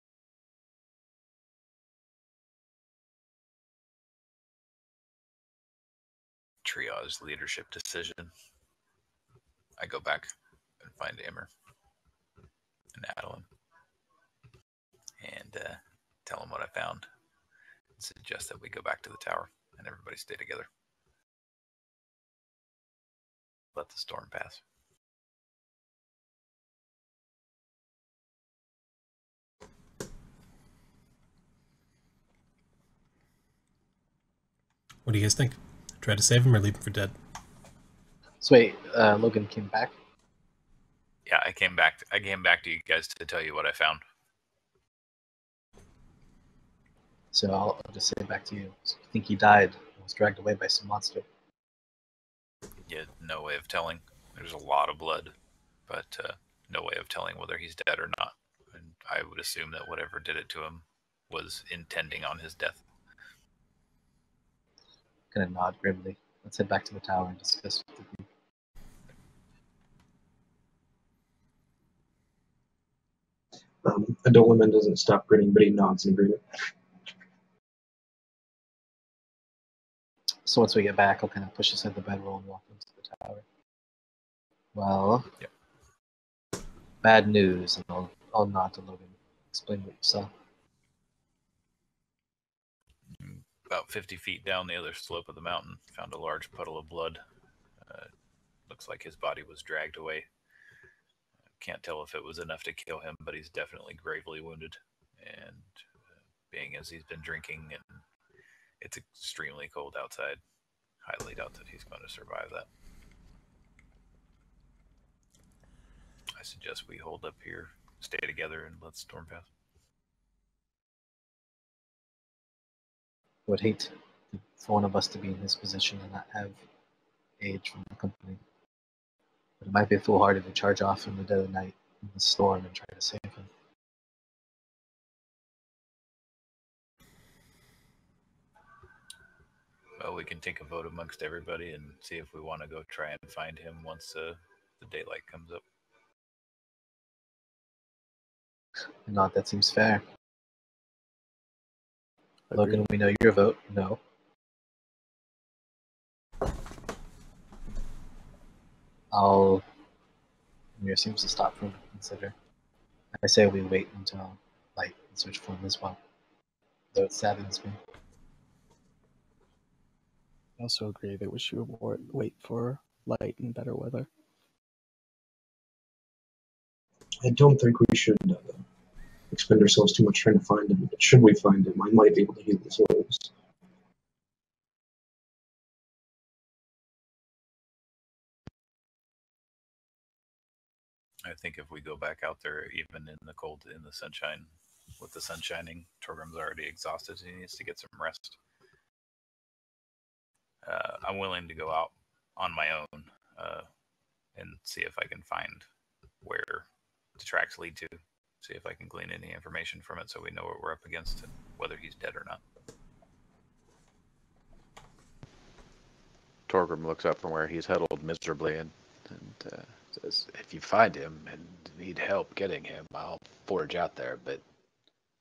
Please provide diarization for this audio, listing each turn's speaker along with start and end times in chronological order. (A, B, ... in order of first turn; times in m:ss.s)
0:06.6-0:08.3 A
0:09.8-0:11.5 A
0:12.9-0:13.5 A
0:15.2-0:17.1 A
0:18.0-0:20.7 A
0:23.8-0:24.6 A
0:35.1-0:37.1 B
0:38.4-0:39.9 C
0:41.3-0:44.0 A
0:47.3-0:51.3 C
0:52.9-0:55.3 A
0:55.9-1:02.8 A
1:05.3-1:08.3 C
1:13.8-1:16.7 D
1:20.4-1:23.4 C
1:24.7-1:25.3 C
1:27.0-1:30.3 C
1:33.1-1:37.2 A
1:37.8-1:38.1 A
1:38.7-1:40.3 A
1:41.6-1:45.8 A
1:46.5-1:48.0 A
1:48.8-1:50.4 A
1:51.0-1:52.7 A
1:56.4-1:59.5 A
2:03.5-2:06.6 C
2:07.4-2:08.4 C
2:09.6-2:13.5 C
2:20.0-2:25.6 A
2:29.1-2:30.0 C
2:32.5-2:32.8 E
2:32.5-2:34.0 C
2:39.1-2:39.6 C
2:40.8-2:42.4 C
2:43.2-2:46.0 C
2:46.9-2:47.8 C
2:50.6-2:54.1 E
2:57.2-2:58.6 D
2:59.3-3:03.3 D
3:11.2-3:18.4 A
3:20.6-3:23.7 A
3:24.4-3:25.6 A
3:26.2-3:26.7 A
3:27.2-3:32.4 A
3:36.5-3:44.4 F